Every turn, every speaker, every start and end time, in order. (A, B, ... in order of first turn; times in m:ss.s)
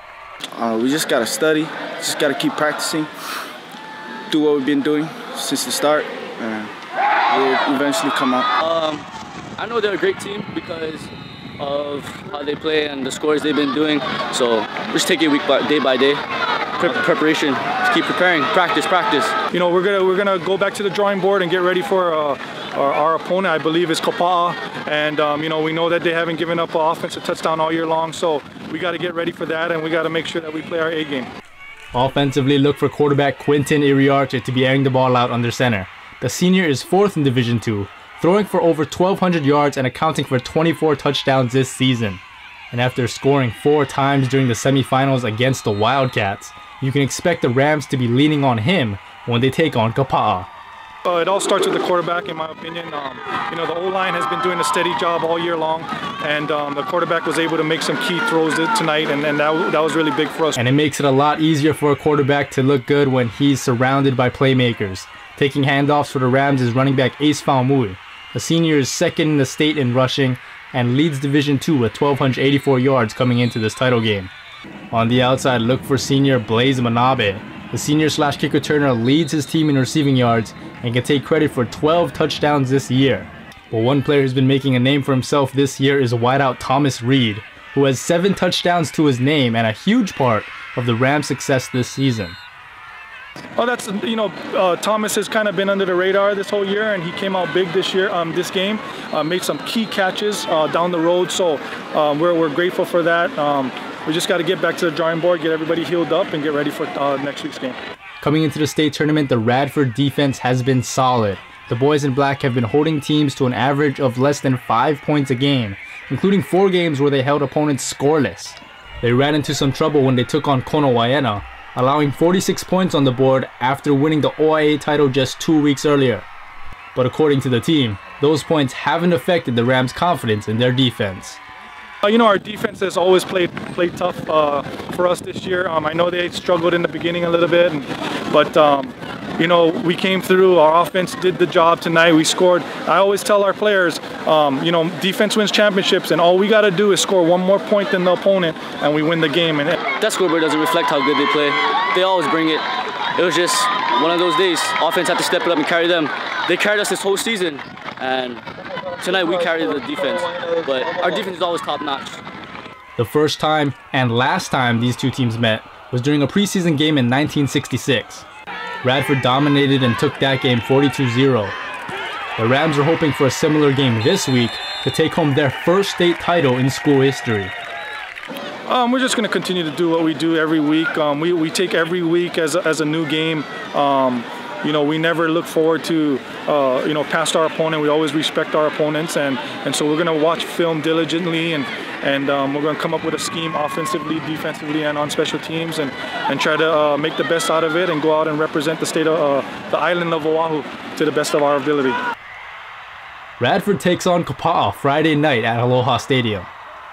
0:00.5-0:03.1 A
0:04.3-0:06.7 A
0:07.3-0:08.5 A
0:08.6-0:09.0 B
0:09.6-0:16.2 B
0:16.8-0:19.3 B
0:19.5-0:31.3 C
0:31.9-0:50.5 D
0:51.0-1:00.7 C
1:00.6-1:14.3 D
1:14.9-1:32.4 D
1:33.6-1:47.8 C
1:48.2-2:06.2 D
2:06.9-2:11.4 D
2:12.0-2:29.8 C
2:30.0-2:32.6 B
2:33.1-2:38.4 B
2:39.0-2:42.2 B
2:43.0-2:48.2 D
2:48.8-2:51.6 D
2:52.4-2:57.5 D
2:58.7-3:22.0 C
3:23.4-3:26.5 D